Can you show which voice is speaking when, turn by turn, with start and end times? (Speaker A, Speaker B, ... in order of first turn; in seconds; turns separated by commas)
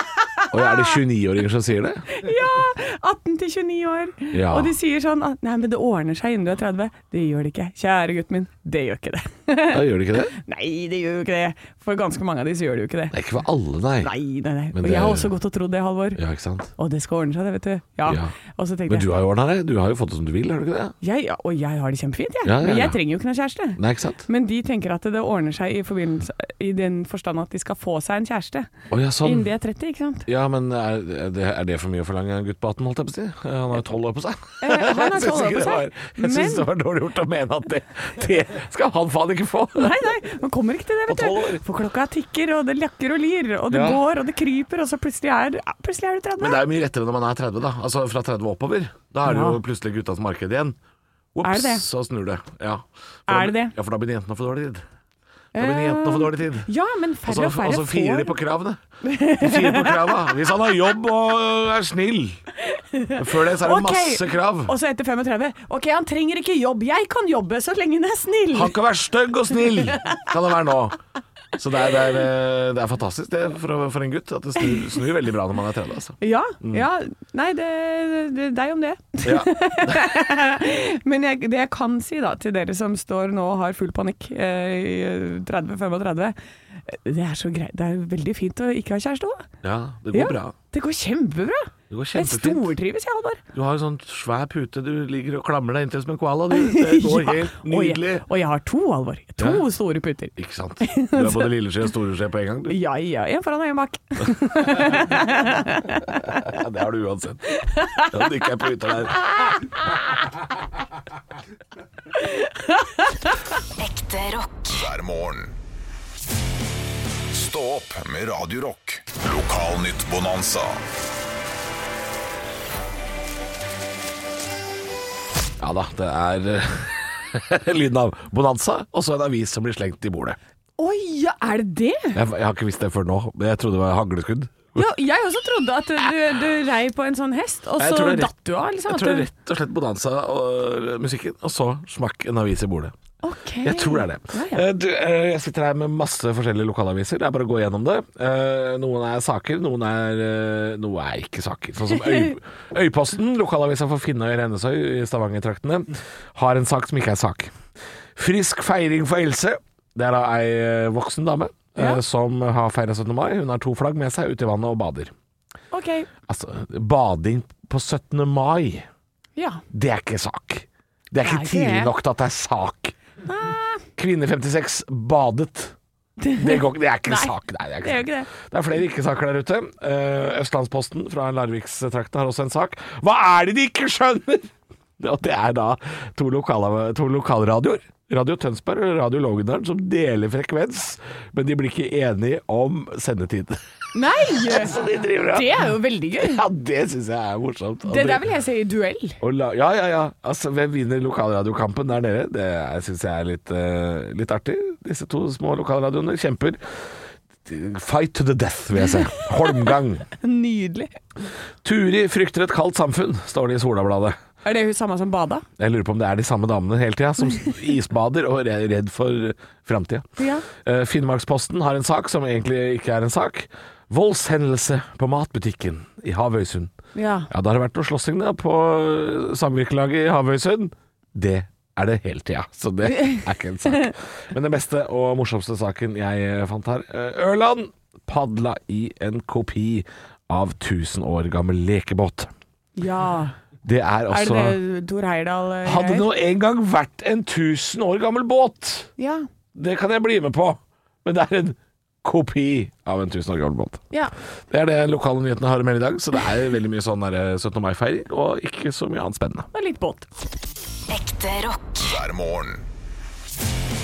Speaker A: 0.4-1.0, Speaker B: 0.5-2.0, Speaker A: 2.1-9.8, Speaker B: 4.3-4.7, Speaker B: 9.7-10.3, Speaker A: 10.3-13.2, Speaker B: 13.1-14.1, Speaker A: 14.0-16.2, Speaker B: 14.7-15.3, Speaker B: 16.1-16.7, Speaker A: 16.8-19.1, Speaker B: 18.1-18.3, Speaker B: 18.9-20.9, Speaker A: 21.0-28.7, Speaker B: 22.4-23.0, Speaker B: 23.8-24.2, Speaker B: 28.9-29.5, Speaker A: 29.2-30.3, Speaker B: 30.3-40.1, Speaker A: 34.6-36.7, Speaker A: 39.7-46.6, Speaker B: 41.0-41.6, Speaker B: 43.7-44.0, Speaker B: 46.4-50.8, Speaker A: 49.2-49.6, Speaker B: 51.3-54.8, Speaker A: 51.4-51.9, Speaker A: 53.3-53.7, Speaker B: 55.5-56.7, Speaker A: 55.5-58.3, Speaker B: 57.2-58.8, Speaker A: 59.0-60.3, Speaker B: 59.4-62.4, Speaker A: 62.6-68.8, Speaker B: 63.1-64.7, Speaker B: 68.5-71.0, Speaker A: 69.5-70.2, Speaker B: 71.5-76.9, Speaker A: 76.2-86.3, Speaker B: 79.2-80.1, Speaker A: 86.9-89.5, Speaker B: 89.6-90.5, Speaker A: 90.1-93.4, Speaker B: 91.9-92.7, Speaker B: 93.5-98.2, Speaker A: 96.5-101.5, Speaker B: 99.4-99.7, Speaker B: 100.4-102.8, Speaker A: 102.7-106.6, Speaker B: 104.8-105.0, Speaker B: 106.3-110.1, Speaker A: 107.5-109.7, Speaker A: 112.1-113.4, Speaker C: 113.8-114.7, Speaker D: 114.7-115.5, Speaker D: 117.3-120.8, Speaker B: 125.6-130.4, Speaker A: 130.8-132.2, Speaker B: 132.1-134.9, Speaker A: 134.7-139.3, Speaker B: 137.8-142.9, Speaker A: 143.2-144.6, Speaker B: 143.6-157.5, Speaker B: 158.2-165.1, Speaker A: 165.7-166.1, Speaker B: 166.3-168.9, Speaker A: 169.4-169.6, Speaker B: 169.7-172.9, Speaker A: 171.2-171.9, Speaker A: 173.2-173.9, Speaker B: 173.9-175.7, Speaker A: 176.2-178.3, Speaker B: 176.3-193.6, Speaker A: 193.9-196.4, Speaker B: 194.2-198.2, Speaker A: 197.9-199.2, Speaker B: 199.2-206.6, Speaker B: 207.4-210.1, Speaker A: 210.2-211.0, Speaker B: 211.6-214.2, Speaker A: 214.4-215.4, Speaker B: 215.6-226.7, Speaker A: 220.2-220.4, Speaker A: 226.9-227.3, Speaker B: 227.3-242.3, Speaker A: 232.9-233.9, Speaker A: 242.8-243.3, Speaker B: 243.6-244.6, Speaker A: 244.1-246.1, Speaker B: 245.6-248.9, Speaker A: 249.0-249.3, Speaker B: 249.6-253.8, Speaker B: 254.5-259.5, Speaker A: 259.5-260.1, Speaker C: 260.9-261.8, Speaker D: 261.8-262.6